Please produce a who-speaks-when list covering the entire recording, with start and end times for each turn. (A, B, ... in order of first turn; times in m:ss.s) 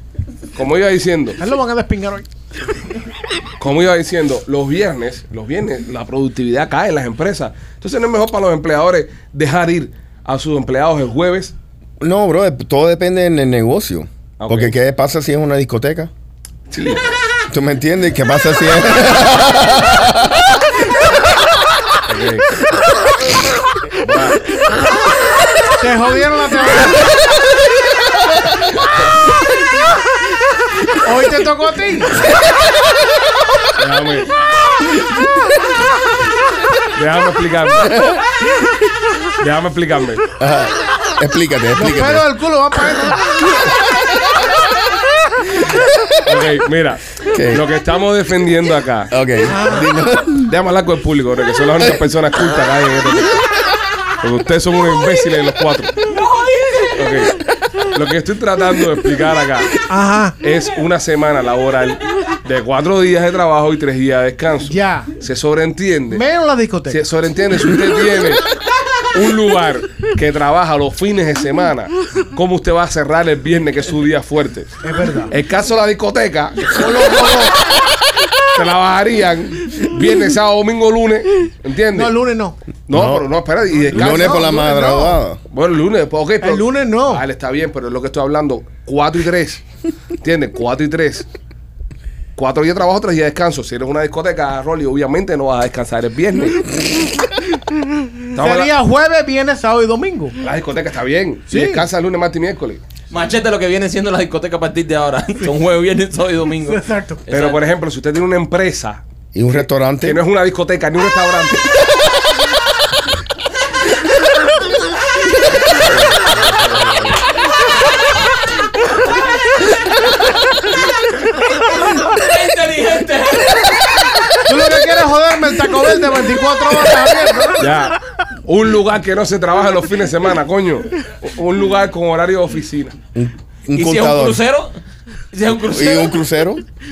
0:00.5-0:01.4 A
0:01.4-0:02.3 B
0:03.6-0:11.5 A
0:12.0-0:16.1 C
0:14.4-0:14.8 A
0:16.7-0:17.2 A
0:17.5-0:20.7 C
0:22.1-0:22.5 A
0:24.0-0:24.4 A
0:25.8-0:27.1 B
0:31.0-0:32.3 B
0:33.8-0:34.3 A
0:36.9-0:38.0 A
0:38.0-0:38.3 C
0:39.4-0:40.3 A
0:40.4-0:42.3 C
0:41.8-0:43.2 B
0:45.7-0:46.1 C
0:46.3-0:49.1 A
0:47.2-0:47.6 C
0:49.1-0:50.5 C
0:49.4-0:50.0 B
0:50.4-0:53.4 A
0:54.2-0:55.9 A
0:56.0-0:57.4 D
0:57.0-0:57.3 A
0:57.9-0:59.8 A
0:59.9-1:00.4 B
1:00.4-1:06.2 A
1:04.6-1:05.2 B
1:06.1-1:07.1 B
1:06.9-1:08.5 A
1:09.1-1:14.8 A
1:14.8-1:15.4 B
1:15.3-1:16.7 A
1:16.7-1:17.6 B
1:18.5-1:22.2 A
1:21.9-1:22.6 B
1:22.9-1:24.5 A
1:22.9-1:23.2 C
1:23.8-1:25.2 B
1:23.9-1:25.4 C
1:25.5-1:29.6 A
1:26.4-1:27.2 B
1:30.2-1:31.3 A
1:32.4-1:36.8 A
1:38.3-1:38.7 A
1:38.4-1:40.4 B
1:40.4-1:42.8 A
1:41.5-1:41.9 B
1:43.1-1:47.6 D
1:46.6-1:47.3 B
1:47.3-1:51.7 A
1:49.3-1:50.2 C
1:55.9-1:57.1 A
2:01.4-2:04.0 D
2:04.4-2:07.7 B
2:07.6-2:13.0 A
2:13.2-2:14.4 C
2:13.7-2:14.8 D
2:15.3-2:16.2 D
2:15.5-2:16.6 C